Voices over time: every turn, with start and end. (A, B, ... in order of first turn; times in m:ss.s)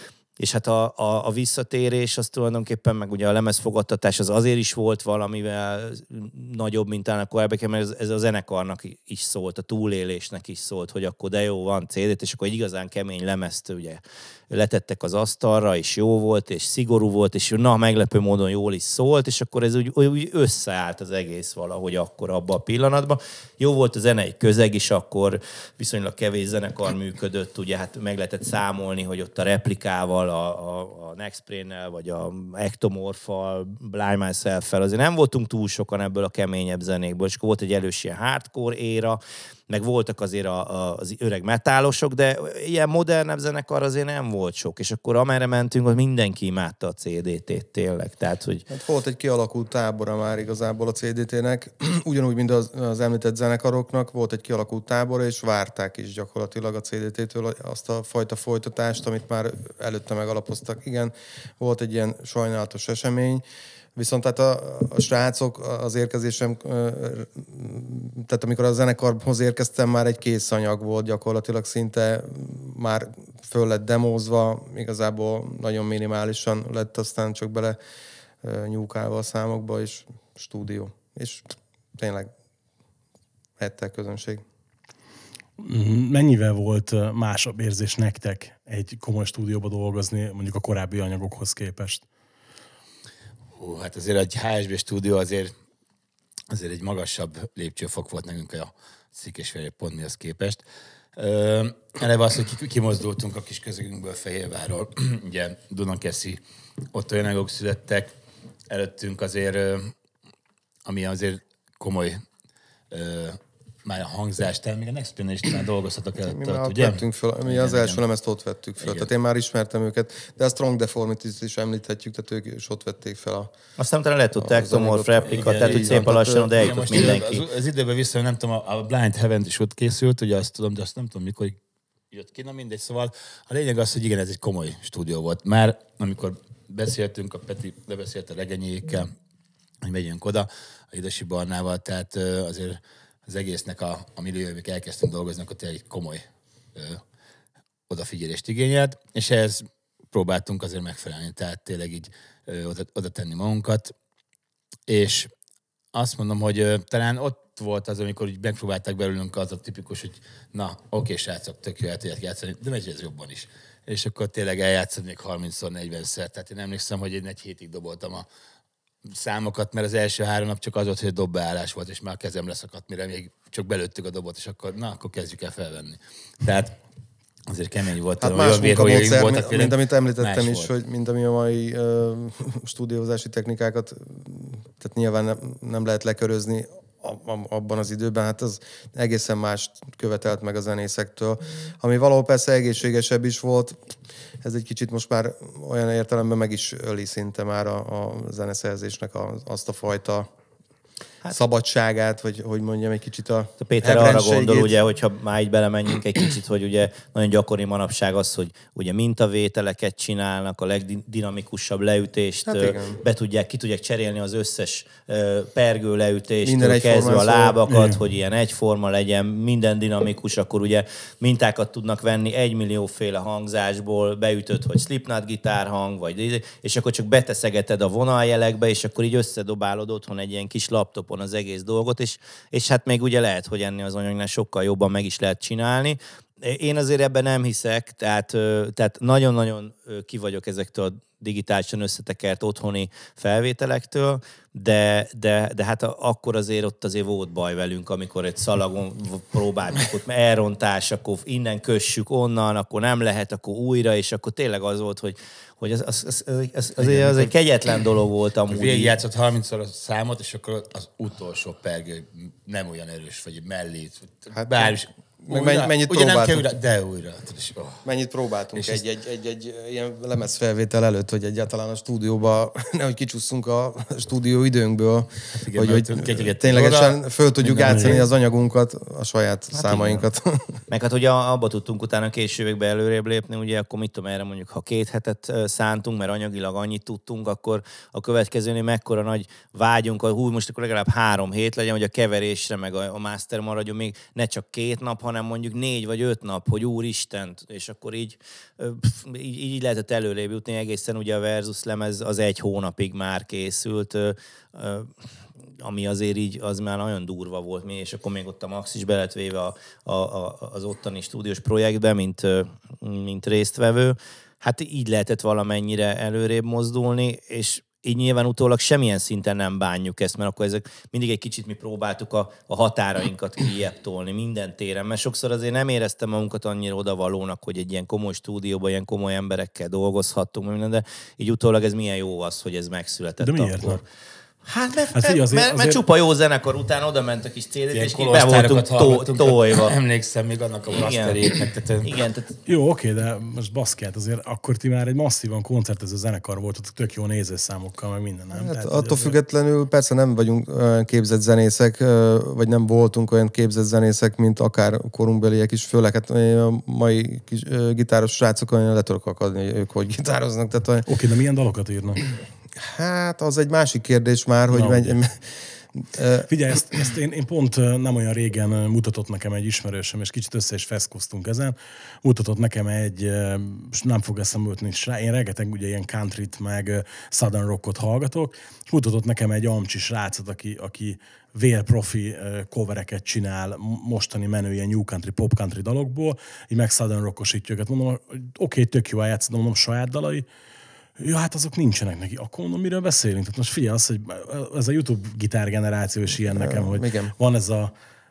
0:00.4-0:48.6 A
0:48.7-1:03.4 B
1:03.9-1:17.8 B
1:18.4-1:22.3 B
1:23.6-1:24.4 B
1:25.6-1:32.0 C
1:33.5-1:35.5 D
1:36.5-1:40.6 D
1:41.2-1:48.1 D
1:48.7-1:49.9 D
1:50.8-1:52.2 D
1:52.9-1:58.0 D
1:56.3-2:03.5 B
1:58.8-1:59.1 D
2:03.8-2:07.4 A
2:04.4-2:07.0 B
2:05.2-2:11.6 D
2:12.1-2:19.1 D
2:19.8-2:26.2 D
2:26.7-2:27.0 D
2:27.9-2:33.9 D
2:34.9-2:35.3 D
2:35.9-2:48.2 D
2:49.0-2:56.8 D
2:57.5-3:00.7 D
2:58.2-3:13.8 B
3:14.4-3:20.3 B
3:21.3-3:24.7 B
3:23.6-4:19.0 A
3:32.4-3:33.0 B
3:36.4-3:37.6 B
3:37.7-3:38.0 C
4:16.8-4:17.3 D
4:18.5-4:27.8 D
4:24.3-4:26.4 B
4:27.8-4:40.6 B
4:28.5-4:28.8 D
4:35.3-4:38.0 D
4:37.7-4:38.0 C
4:40.7-5:04.9 A
5:05.6-5:33.8 A
5:33.2-5:33.8 C
5:34.4-5:39.8 A
5:34.9-5:35.8 C
5:37.7-5:41.9 D
5:40.7-5:41.2 A
5:41.8-5:42.3 A
5:42.4-5:49.1 C
5:48.3-6:00.9 B
6:00.8-6:02.0 C
6:02.6-6:06.3 B
6:04.5-6:05.0 C
6:06.3-6:30.2 C
6:31.0-6:37.7 C
6:36.2-6:37.1 B